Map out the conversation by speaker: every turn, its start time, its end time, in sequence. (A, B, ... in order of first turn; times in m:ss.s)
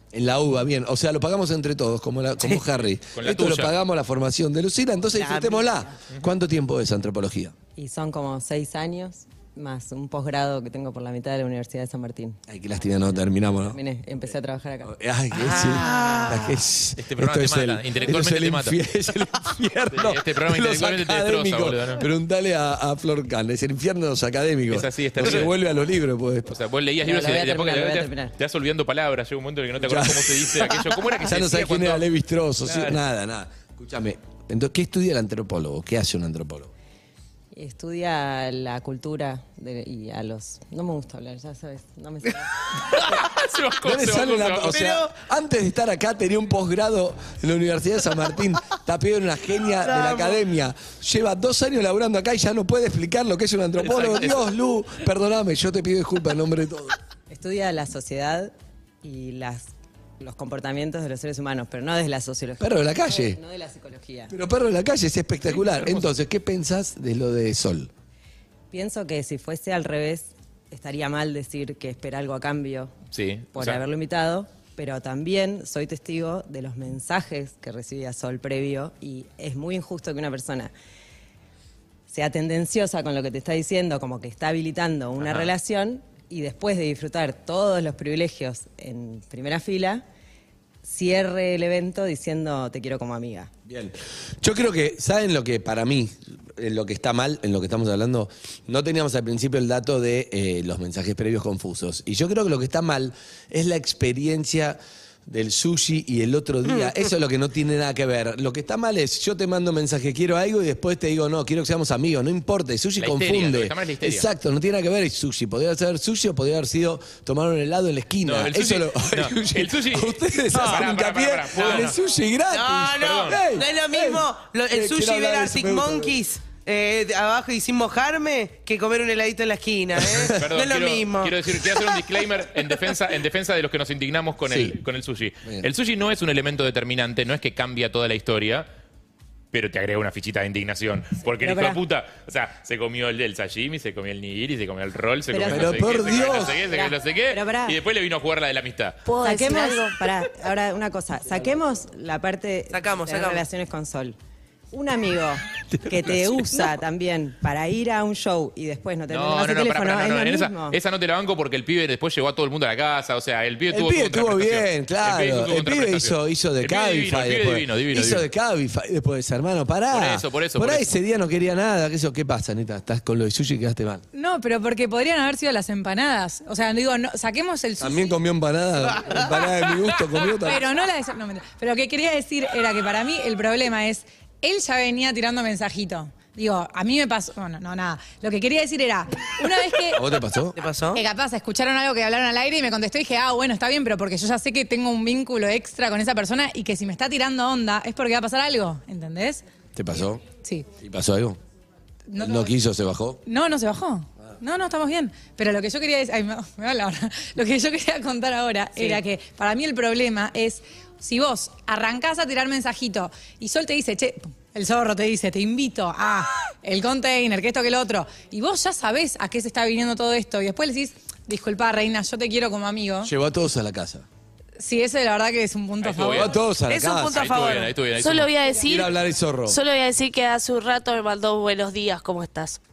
0:00.1-0:07.5 A
0:03.1-0:03.7 B
0:05.1-0:05.7 C
0:07.8-0:12.4 D
0:12.5-0:13.8 A
0:13.7-0:14.9 D
0:14.8-0:26.5 A
0:15.4-0:16.3 C
0:17.0-0:18.8 B
0:19.9-0:22.0 B
0:24.7-0:25.5 B
0:26.5-0:32.1 B
0:27.0-0:28.3 D
0:29.8-0:30.5 A
0:31.2-0:36.7 A
0:32.6-0:33.0 B
0:37.5-0:42.4 D
0:42.9-0:44.9 B
0:43.8-0:57.0 A
0:44.7-0:45.1 C
0:49.8-0:50.4 C
0:53.8-0:54.4 B
0:57.3-0:58.5 D
0:59.0-0:59.7 D
1:00.2-1:04.3 D
1:02.6-1:03.4 A
1:04.3-1:07.9 A
1:05.5-1:06.1 B
1:08.7-1:12.9 D
1:13.1-1:13.8 B
1:13.5-1:20.7 D
1:22.1-1:30.0 D
1:25.2-1:25.5 B
1:30.8-1:33.5 D
1:33.7-2:06.2 A
1:53.0-1:54.2 B
1:58.2-2:02.0 B
2:02.5-2:11.3 C
2:02.9-2:03.4 B
2:10.3-2:18.7 B
2:14.4-2:14.8 A
2:19.5-2:29.0 B
2:21.4-2:21.8 D
2:25.3-2:25.6 D
2:25.4-2:26.7 A
2:26.6-2:27.8 D
2:29.0-2:30.0 E
2:29.2-2:34.2 D
2:32.7-2:33.4 C
2:34.7-2:40.8 D
2:39.1-2:48.2 B
2:43.7-2:54.0 A
2:49.9-2:50.9 B
2:54.1-2:58.1 F
2:57.8-3:00.6 A
3:00.5-3:10.0 F
3:09.9-3:10.6 A
3:10.6-3:11.0 C
3:10.9-3:19.4 F
3:19.7-3:20.2 A
3:20.3-3:20.7 F
3:20.8-3:21.4 A
3:22.1-3:22.5 F
3:22.2-3:23.2 A
3:23.2-3:43.1 F
3:43.0-3:44.0 A
3:44.6-3:46.3 F
3:45.8-3:46.3 B
3:46.0-3:47.3 A
3:46.7-3:47.7 C
3:47.0-3:48.3 B
3:48.0-3:48.9 E
3:48.6-3:49.6 A
3:49.5-3:52.6 E